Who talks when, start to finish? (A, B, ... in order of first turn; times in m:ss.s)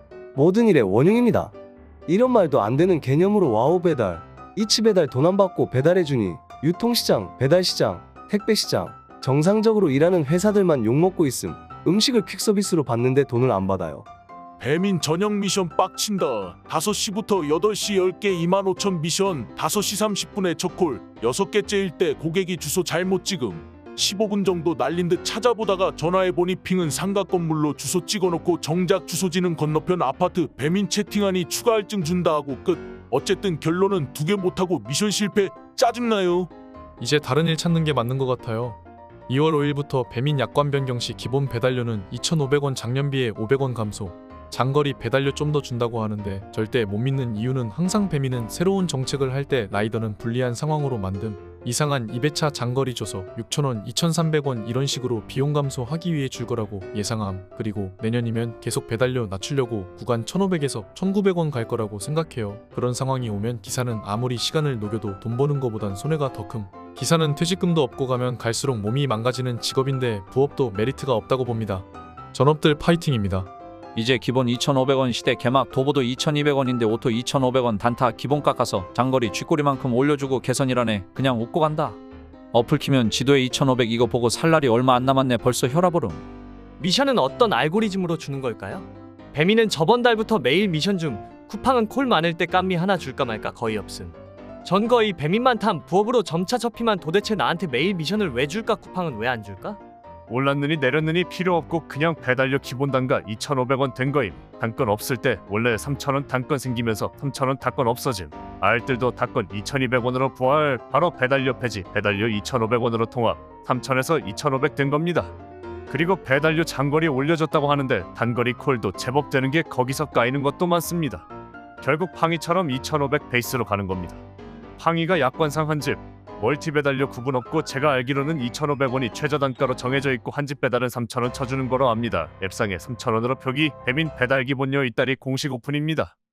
0:00.3-0:14.0 A
0:14.6-0:36.5 B
0:37.0-1:13.5 C
1:14.0-1:22.0 D
1:22.5-1:26.2 D
1:26.8-1:39.8 E
1:40.3-1:55.3 F
1:55.9-2:01.2 F
2:01.8-2:04.2 F
2:04.8-2:16.1 F